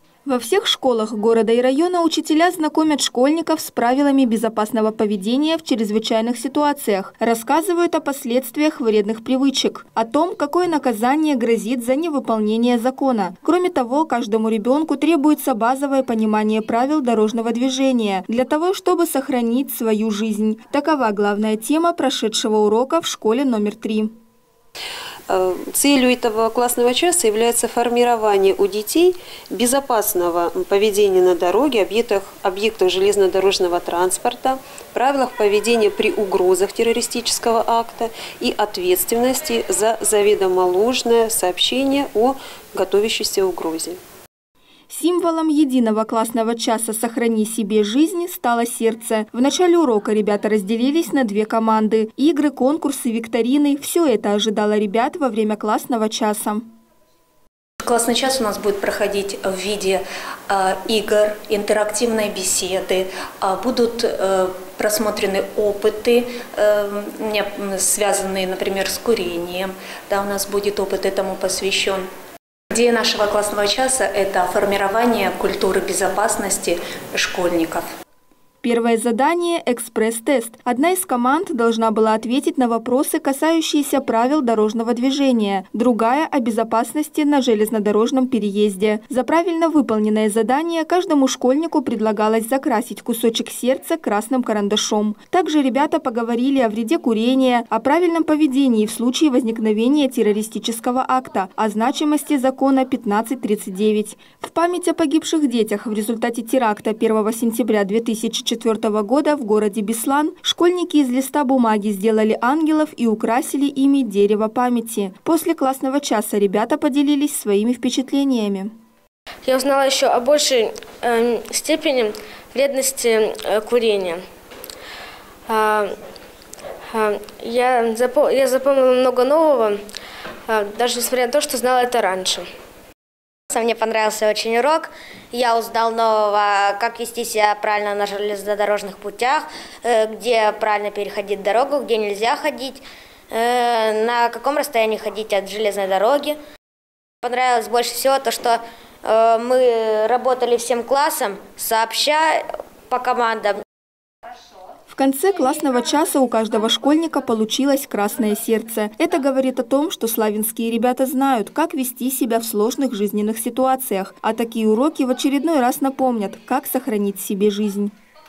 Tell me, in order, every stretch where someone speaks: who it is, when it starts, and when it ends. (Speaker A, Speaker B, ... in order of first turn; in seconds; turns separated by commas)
Speaker A: 0.2-24.1, Speaker B: 25.3-44.0, Speaker A: 44.9-56.6, Speaker C: 57.8-72.1, Speaker C: 72.7-77.8, Speaker A: 78.6-118.7, Speaker D: 119.5-124.2, Speaker D: 125.5-125.9, Speaker D: 126.9-129.8, Speaker D: 130.5-132.4, Speaker E: 133.5-146.4, Speaker E: 147.2-153.6, Speaker A: 154.9-167.9